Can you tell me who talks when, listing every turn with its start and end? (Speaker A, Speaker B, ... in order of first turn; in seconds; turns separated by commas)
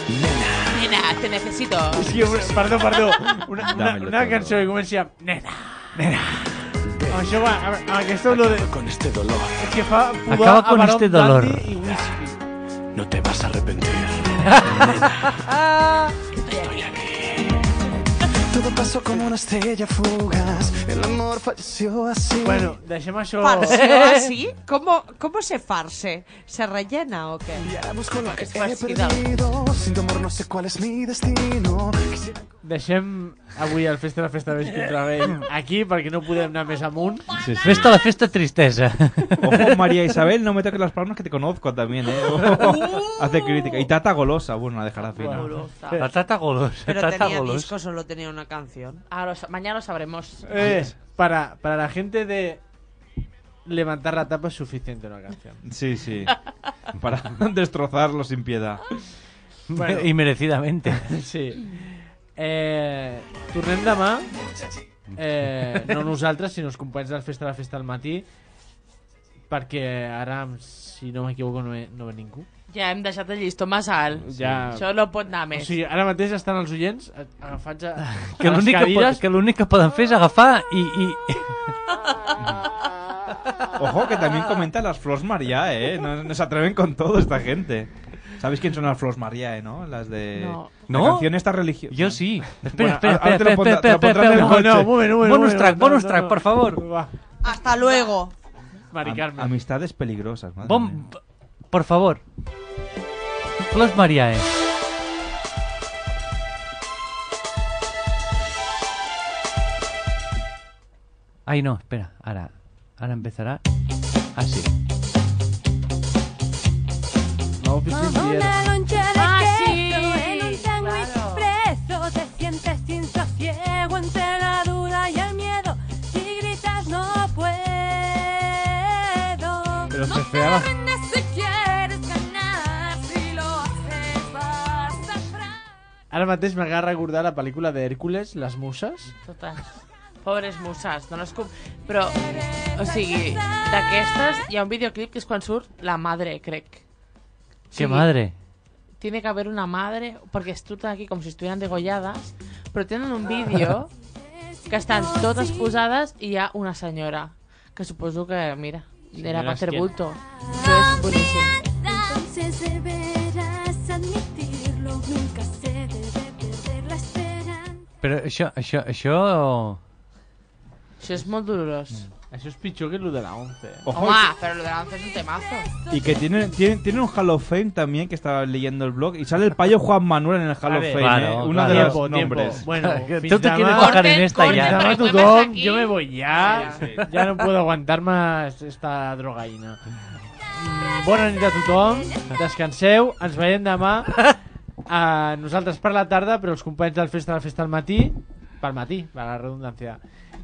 Speaker A: 0.7-2.0, Speaker B: 1.9-8.8, Speaker C: 3.6-4.7, Speaker D: 8.8-9.4, Speaker B: 9.5-12.3, Speaker E: 10.3-11.7, Speaker D: 13.0-14.0, Speaker A: 16.4-17.0, Speaker D: 19.5-22.1, Speaker B: 22.4-24.3, Speaker F: 23.4-27.7, Speaker A: 28.3-29.4, Speaker D: 28.8-29.0, Speaker D: 30.1-31.9, Speaker B: 32.6-37.2, Speaker C: 37.4-37.9, Speaker E: 37.6-39.9, Speaker C: 39.4-45.6, Speaker B: 45.1-46.0, Speaker A: 45.3-46.0, Speaker E: 45.9-47.7, Speaker F: 46.9-49.0, Speaker A: 49.1-50.8, Speaker B: 50.4-52.6, Speaker B: 53.6-55.6, Speaker C: 55.6-56.3, Speaker C: 57.0-58.8, Speaker E: 59.7-61.0, Speaker B: 59.7-60.1, Speaker B: 60.9-64.3, Speaker B: 65.2-68.2, Speaker B: 69.5-72.5, Speaker A: 72.7-75.8, Speaker B: 74.2-74.9, Speaker C: 74.3-74.7, Speaker B: 75.5-79.2, Speaker E: 78.0-81.5, Speaker C: 83.8-95.0, Speaker A: 90.3-90.8, Speaker E: 90.9-91.3, Speaker E: 91.9-96.8, Speaker B: 94.3-97.1, Speaker F: 97.4-98.3, Speaker B: 98.9-99.5, Speaker C: 99.0-101.0, Speaker E: 100.6-101.2, Speaker E: 101.7-102.2, Speaker E: 103.7-104.5, Speaker E: 111.5-113.6, Speaker E: 114.3-114.7, Speaker B: 117.6-118.5, Speaker G: 117.9-135.4, Speaker A: 119.1-121.5, Speaker B: 129.9-130.7, Speaker B: 136.1-139.1, Speaker A: 139.2-146.8, Speaker A: 147.7-148.1, Speaker E: 147.7-148.4, Speaker A: 149.0-153.9, Speaker G: 154.0-155.8, Speaker A: 154.7-161.6, Speaker B: 159.1-159.9, Speaker G: 160.3-161.1, Speaker G: 161.8-167.9, Speaker E: 168.0-169.8, Speaker A: 171.0-172.0, Speaker B: 172.3-173.9, Speaker C: 173.9-174.3, Speaker A: 173.9-175.7, Speaker C: 175.9-182.7, Speaker B: 180.7-181.1, Speaker E: 180.9-185.1, Speaker B: 181.6-189.8, Speaker A: 183.7-186.8, Speaker C: 186.7-187.0, Speaker B: 190.5-194.2, Speaker B: 194.9-200.0